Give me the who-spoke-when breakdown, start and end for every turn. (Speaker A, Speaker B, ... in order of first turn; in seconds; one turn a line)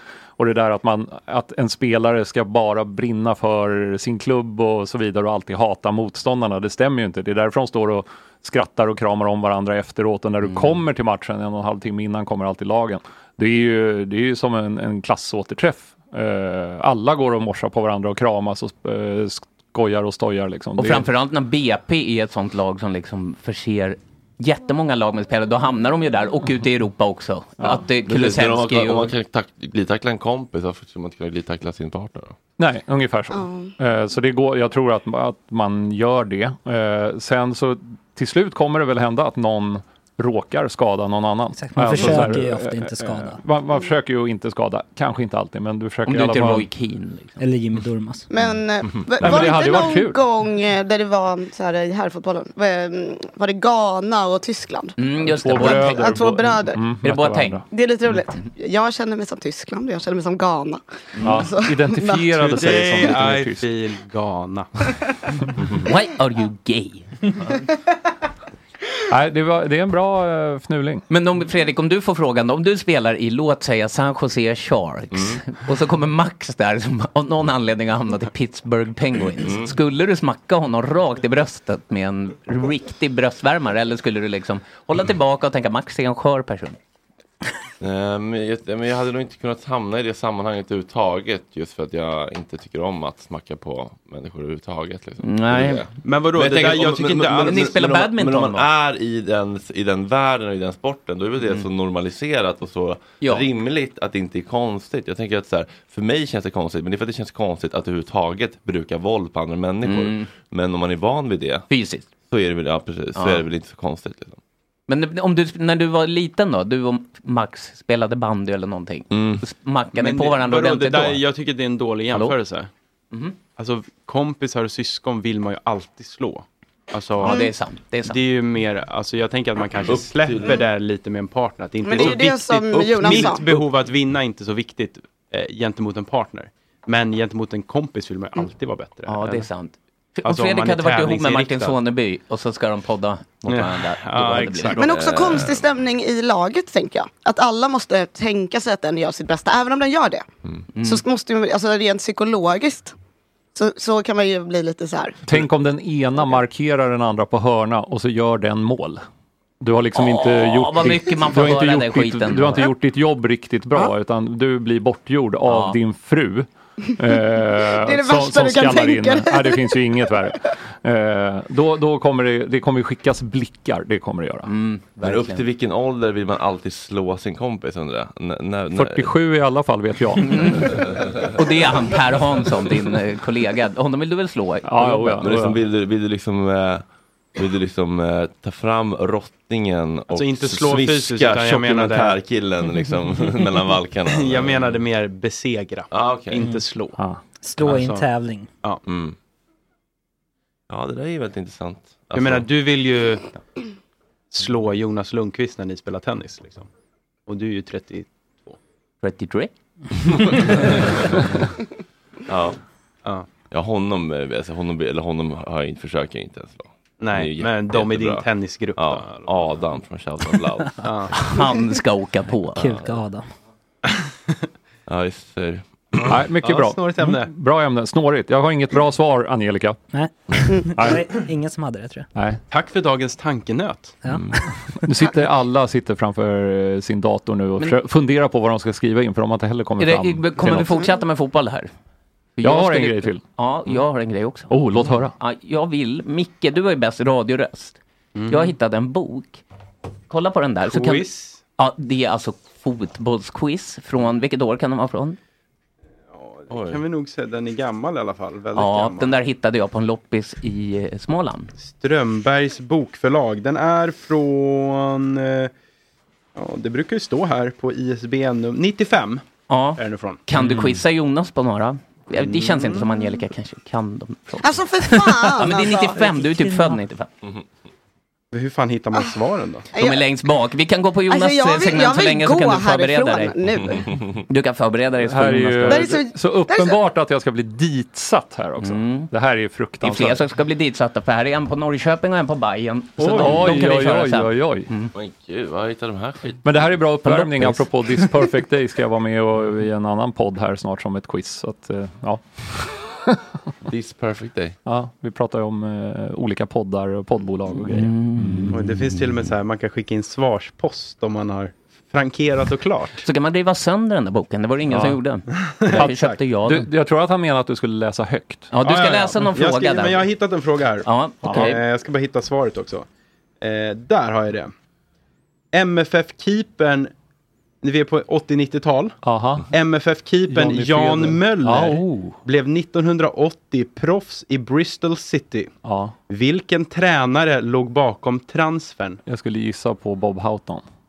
Speaker A: 0.4-21.1
Speaker B: 20.8-29.1
Speaker C: 28.1-32.4
Speaker A: 32.6-46.7
Speaker D: 33.3-33.7
Speaker E: 41.6-43.4
Speaker B: 46.1-47.4
Speaker E: 47.4-48.3
Speaker D: 48.3-55.0
Speaker A: 49.2-50.2
Speaker B: 55.0-56.1
Speaker A: 55.3-57.6
Speaker D: 55.5-56.8
Speaker B: 57.0-57.6
Speaker D: 57.7-62.8
Speaker A: 61.2-63.6
Speaker F: 62.4-64.7
Speaker B: 65.8-67.6
Speaker A: 69.1-71.0
Speaker B: 71.1-86.8
Speaker C: 79.4-79.7
Speaker C: 87.8-111.7
Speaker B: 95.2-95.8
Speaker F: 96.0-97.7
Speaker B: 97.4-98.7
Speaker B: 103.2-103.5
Speaker B: 109.8-110.3
Speaker B: 111.7-112.0
Speaker C: 112.3-114.4
Speaker B: 113.2-113.4
Speaker B: 114.9-121.2
Speaker C: 119.1-119.4
Speaker F: 119.9-122.7
Speaker F: 123.5-127.4
Speaker B: 127.2-128.2
Speaker F: 128.0-139.2
Speaker C: 129.8-130.6
Speaker D: 131.8-133.5
Speaker C: 131.9-133.4
Speaker B: 139.1-144.8
Speaker F: 140.2-141.8
Speaker F: 143.5-144.8
Speaker C: 144.8-145.6
Speaker D: 144.8-150.2
Speaker B: 150.7-151.0
Speaker D: 150.8-152.9
Speaker D: 153.5-155.2
Speaker A: 155.3-159.0
Speaker A: 159.6-174.5
Speaker B: 159.9-162.7
Speaker B: 165.5-165.8
Speaker D: 167.7-169.8
Speaker B: 174.4-175.4
Speaker C: 175.0-179.1
Speaker A: 178.7-180.8
Speaker B: 180.2-185.3
Speaker A: 184.6-185.6
Speaker C: 185.2-186.8
Speaker C: 187.3-194.8
Speaker F: 190.1-192.2
Speaker F: 194.1-197.0
Speaker C: 195.9-196.4
Speaker A: 197.0-197.2
Speaker E: 197.4-198.5
Speaker F: 197.6-198.1
Speaker C: 198.9-199.1
Speaker C: 200.7-202.5
Speaker F: 202.1-203.2
Speaker F: 204.3-206.7
Speaker F: 207.3-208.6
Speaker B: 209.0-209.5
Speaker C: 210.4-211.3
Speaker C: 212.3-212.6
Speaker C: 213.5-220.9
Speaker F: 217.0-219.5
Speaker F: 220.8-221.1
Speaker B: 221.1-222.7
Speaker E: 222.5-223.3
Speaker C: 224.9-226.1
Speaker F: 225.9-227.3
Speaker A: 226.1-229.8
Speaker E: 229.9-232.1
Speaker A: 230.7-231.1
Speaker A: 232.1-232.4
Speaker F: 232.5-234.0
Speaker E: 234.0-234.8
Speaker C: 234.1-234.4
Speaker A: 234.8-240.8
Speaker B: 239.8-241.7
Speaker B: 242.4-249.4
Speaker A: 242.4-243.2
Speaker A: 244.5-245.1
Speaker F: 248.1-248.5
Speaker B: 250.1-251.0
Speaker F: 250.7-251.4
Speaker B: 251.6-255.2
Speaker F: 256.1-259.2
Speaker C: 256.5-256.8
Speaker B: 258.5-261.5
Speaker F: 261.6-265.5
Speaker F: 266.3-269.2
Speaker B: 269.5-277.1
Speaker F: 269.8-270.2
Speaker A: 270.4-270.8
Speaker F: 272.2-272.9
Speaker D: 274.4-276.0
Speaker E: 275.9-276.8
Speaker F: 278.3-279.7
Speaker D: 279.7-280.1
Speaker B: 279.8-283.3
Speaker D: 281.1-283.9
Speaker B: 284.3-285.9
Speaker A: 285.0-290.2
Speaker D: 285.7-286.8
Speaker B: 288.6-289.1
Speaker B: 289.8-294.9
Speaker A: 293.0-294.7
Speaker F: 293.1-293.4
Speaker C: 294.9-296.4
Speaker A: 296.4-303.2
Speaker B: 297.0-297.7
Speaker C: 303.6-304.6
Speaker A: 304.6-308.6
Speaker B: 307.7-308.5
Speaker F: 308.5-313.1
Speaker B: 313.0-316.7
Speaker A: 314.7-315.0
Speaker F: 315.4-316.2
Speaker A: 315.7-318.5
Speaker B: 318.5-320.1
Speaker F: 318.6-322.9
Speaker B: 320.8-321.6
Speaker A: 321.2-321.5
Speaker F: 323.4-324.5
Speaker F: 325.5-326.9
Speaker F: 327.6-335.5
Speaker A: 329.0-329.4
Speaker A: 330.3-332.2
Speaker A: 335.6-335.9
Speaker F: 336.1-339.0
Speaker A: 339.1-340.6